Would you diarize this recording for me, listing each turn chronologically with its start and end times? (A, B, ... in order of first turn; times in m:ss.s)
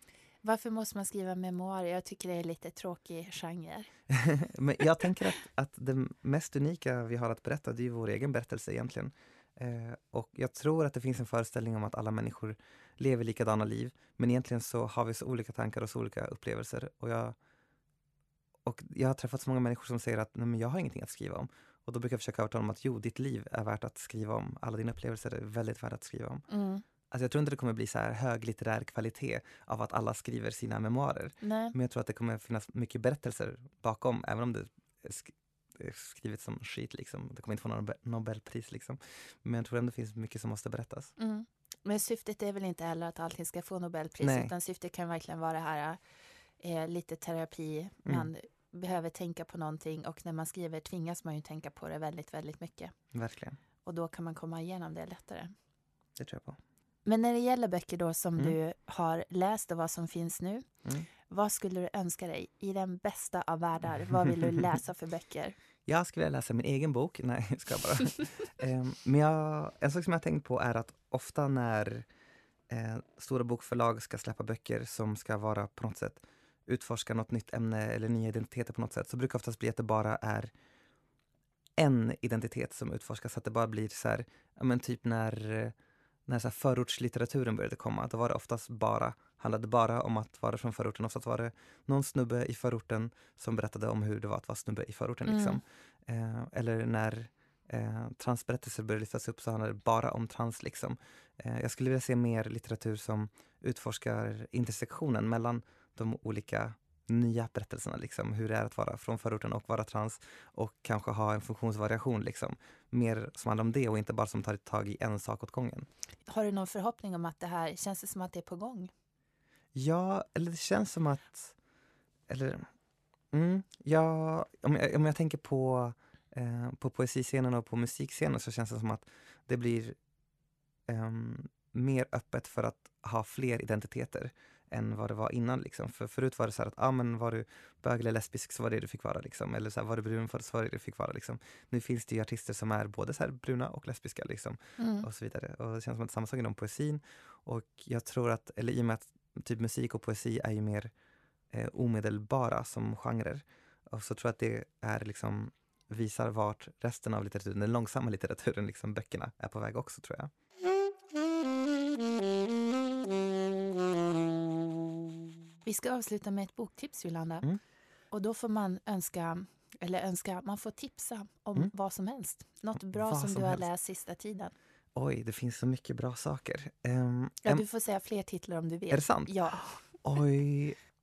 0:00.4-0:03.9 A
0:04.1-0:17.4 B
0:18.6-0:26.4 B
0:26.5-0:26.8 A
0:27.1-0:41.1 B
0:31.4-0:31.7 A
0:41.2-0:46.0 A
0:44.2-0:44.5 B
0:46.6-0:52.9 A
0:53.1-0:53.6 B
0:53.8-0:55.5 A
0:56.2-0:56.6 B
0:57.0-1:00.6 A
1:01.2-1:05.6 A
1:05.8-1:12.1 B
1:12.7-1:20.5 B
1:21.8-1:25.7 B
1:26.3-1:55.9 B
1:35.2-1:35.6 A
1:56.3-1:58.9 A
1:59.7-2:01.5 B
2:02.3-2:02.7 B
2:03.3-2:10.0 B
2:10.9-2:30.9 B
2:24.8-2:25.1 A
2:31.5-2:40.3 B
2:45.6-2:47.4 A
2:48.1-2:54.5 A
2:52.9-2:53.6 B
2:54.9-2:57.6 B
2:57.4-2:59.8 A
2:58.9-2:59.3 B
3:00.0-3:00.8 B